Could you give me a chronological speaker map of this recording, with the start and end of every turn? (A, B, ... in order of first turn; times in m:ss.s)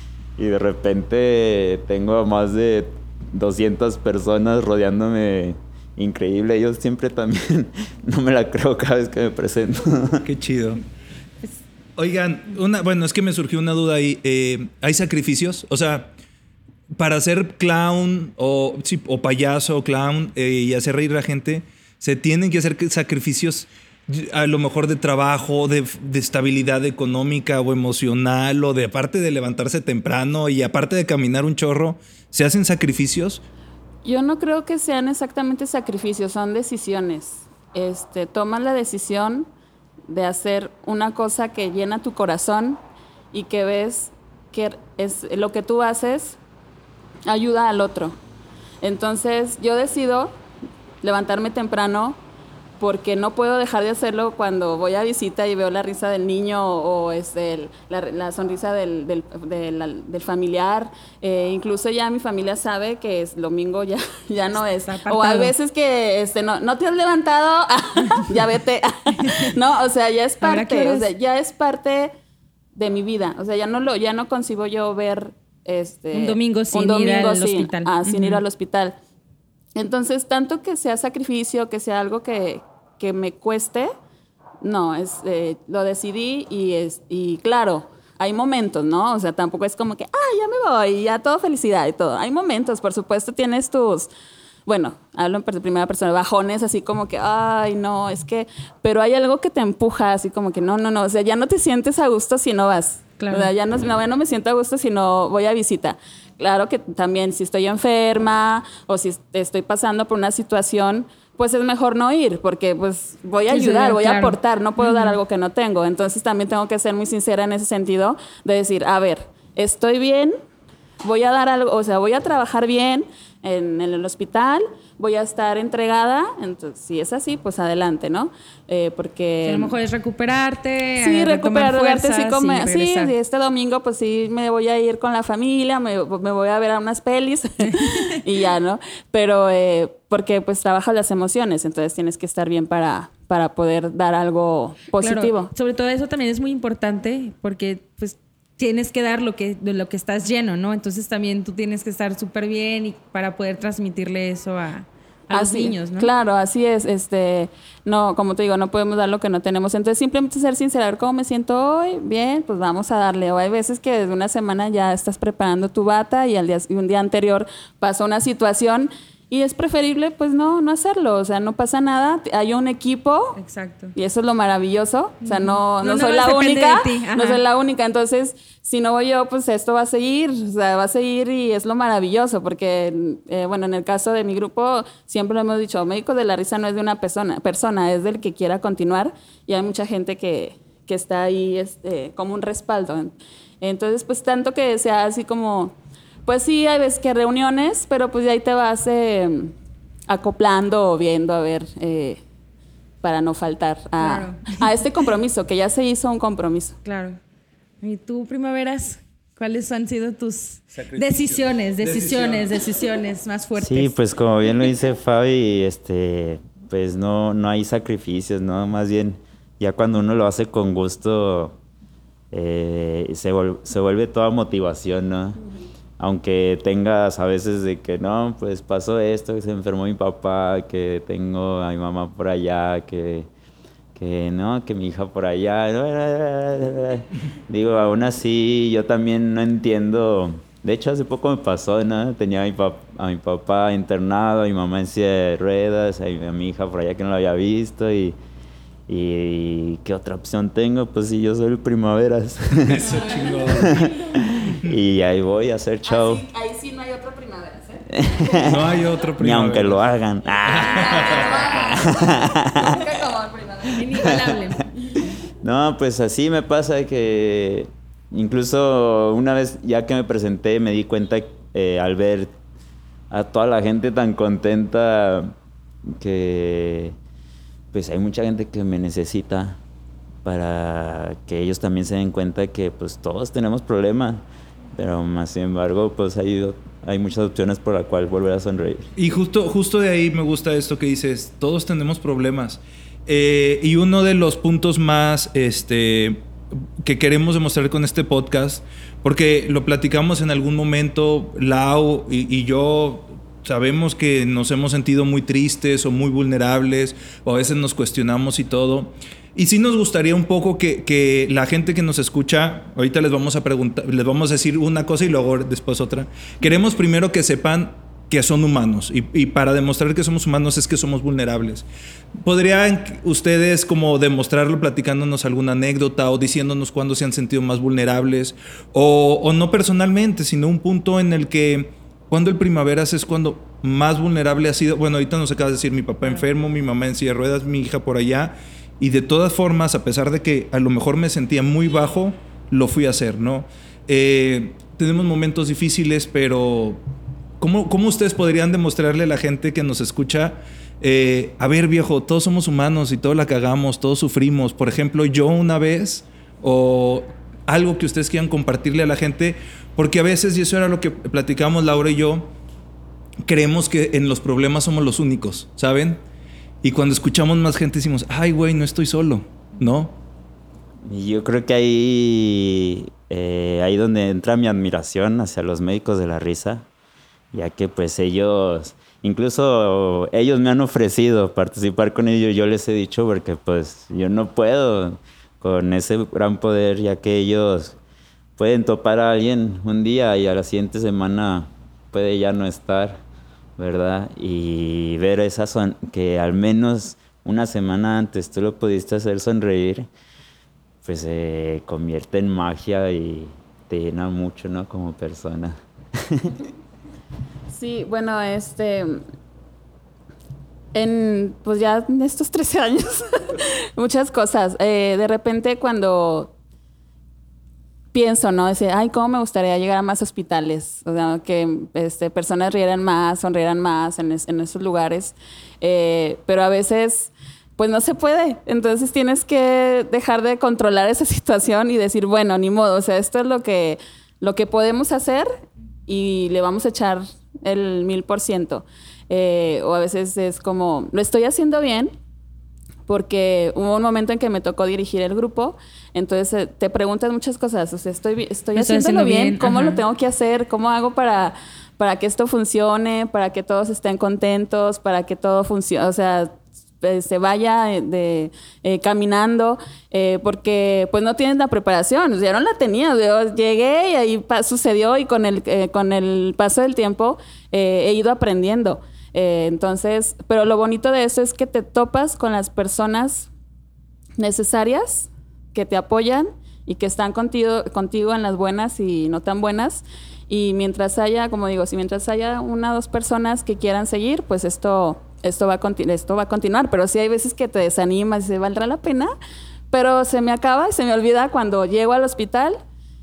0:00.4-0:10.2 A
0:10.2-0:10.8 B
0:12.0-0:16.1 B
0:17.0-0:33.4 B
0:34.0-0:39.5 C
0:40.1-0:42.8 C
0:43.3-0:46.4 C
0:47.2-0:48.2 C
0:48.8-0:50.3 C
0:51.0-0:52.2 C
0:52.8-1:12.1 C
1:04.8-1:05.5 D
1:09.2-1:09.5 D
1:10.4-1:11.1 D
1:12.8-1:19.0 C
1:16.1-1:18.4 D
1:19.8-1:23.9 C
1:24.6-1:34.1 C
1:34.6-2:00.4 C
1:43.2-1:43.5 D
1:53.5-1:55.2 D
2:01.0-2:09.7 C
2:09.4-2:13.1 D
2:11.0-2:25.5 C
2:25.0-2:36.1 D
2:35.3-2:53.4 C
2:53.4-2:53.9 D
2:53.9-3:15.7 C
2:55.2-2:57.4 D
3:16.2-3:19.5 C
3:20.1-3:22.2 C
3:23.0-3:26.8 C
3:24.0-3:24.6 D
3:26.8-3:27.2 D
3:27.8-3:33.9 D
3:30.7-3:32.5 B
3:33.5-3:41.6 A
3:42.3-3:45.4 A
3:46.0-3:53.3 A
3:54.0-4:08.2 A
4:08.9-4:16.2 A
4:12.6-4:13.9 B
4:12.9-4:13.9 C
4:15.8-4:18.7 C
4:17.9-4:22.8 A
4:18.4-4:19.8 B
4:20.4-4:21.4 B
4:20.5-4:24.3 C
4:23.6-4:24.9 D
4:24.0-4:24.3 A
4:25.4-4:32.3 A
4:33.1-4:35.3 A
4:35.9-4:37.0 A
4:37.7-4:39.6 A
4:40.2-4:44.2 A
4:44.7-4:48.9 A
4:49.0-4:56.2 B
4:56.8-5:21.6 B
5:22.2-5:46.8 B
5:47.4-6:02.3 B
6:03.2-6:06.0 B
6:06.6-6:10.0 B
6:10.8-6:16.6 A
6:17.3-6:27.8 A
6:28.4-6:33.0 A
6:33.6-6:39.9 A
6:40.8-6:46.4 A
6:47.5-6:49.0 C
6:50.7-6:56.3 C
6:57.9-7:21.9 C
7:22.9-7:53.3 C
7:28.5-7:29.8 D
7:54.2-8:09.1 C
8:09.7-8:12.6 C